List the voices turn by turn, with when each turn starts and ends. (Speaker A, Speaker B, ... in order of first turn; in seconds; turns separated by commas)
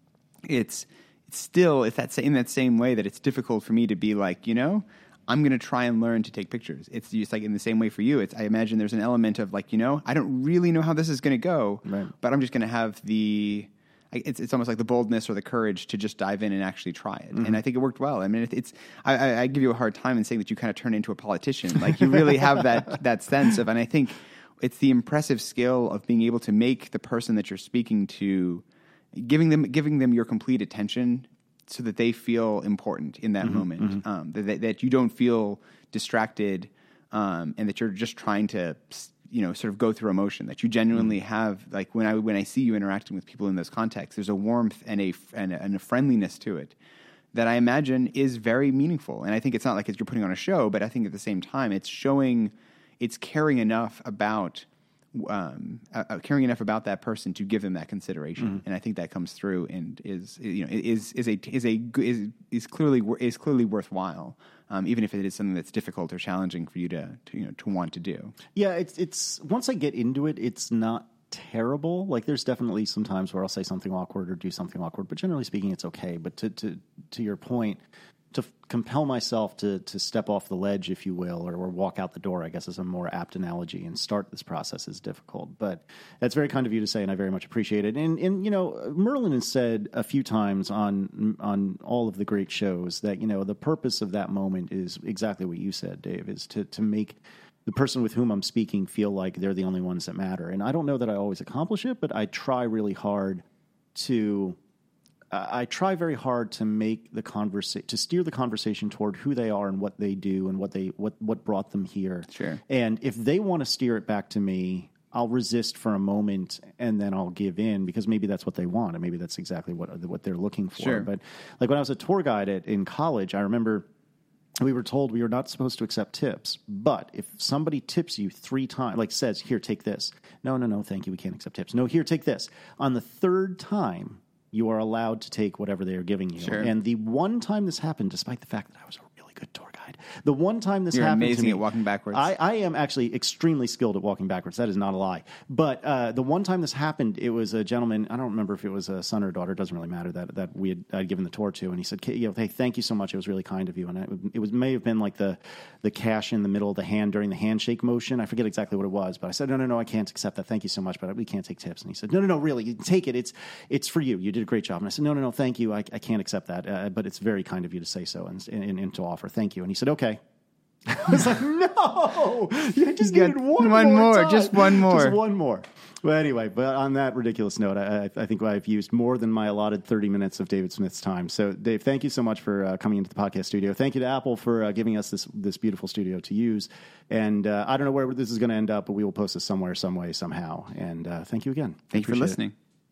Speaker A: 0.5-46.7, Speaker B: 11.8-12.1, Speaker B: 33.5-34.0, Speaker A: 47.3-68.3, Speaker B: 68.5-77.8, Speaker B: 78.3-103.4, Speaker B: 103.9-104.6, Speaker B: 105.3-123.9, Speaker A: 112.3-112.6, Speaker A: 120.8-121.1, Speaker B: 124.6-170.2, Speaker A: 136.4-136.7, Speaker A: 140.9-142.3, Speaker B: 170.8-192.4, Speaker A: 173.0-175.2, Speaker A: 191.9-192.5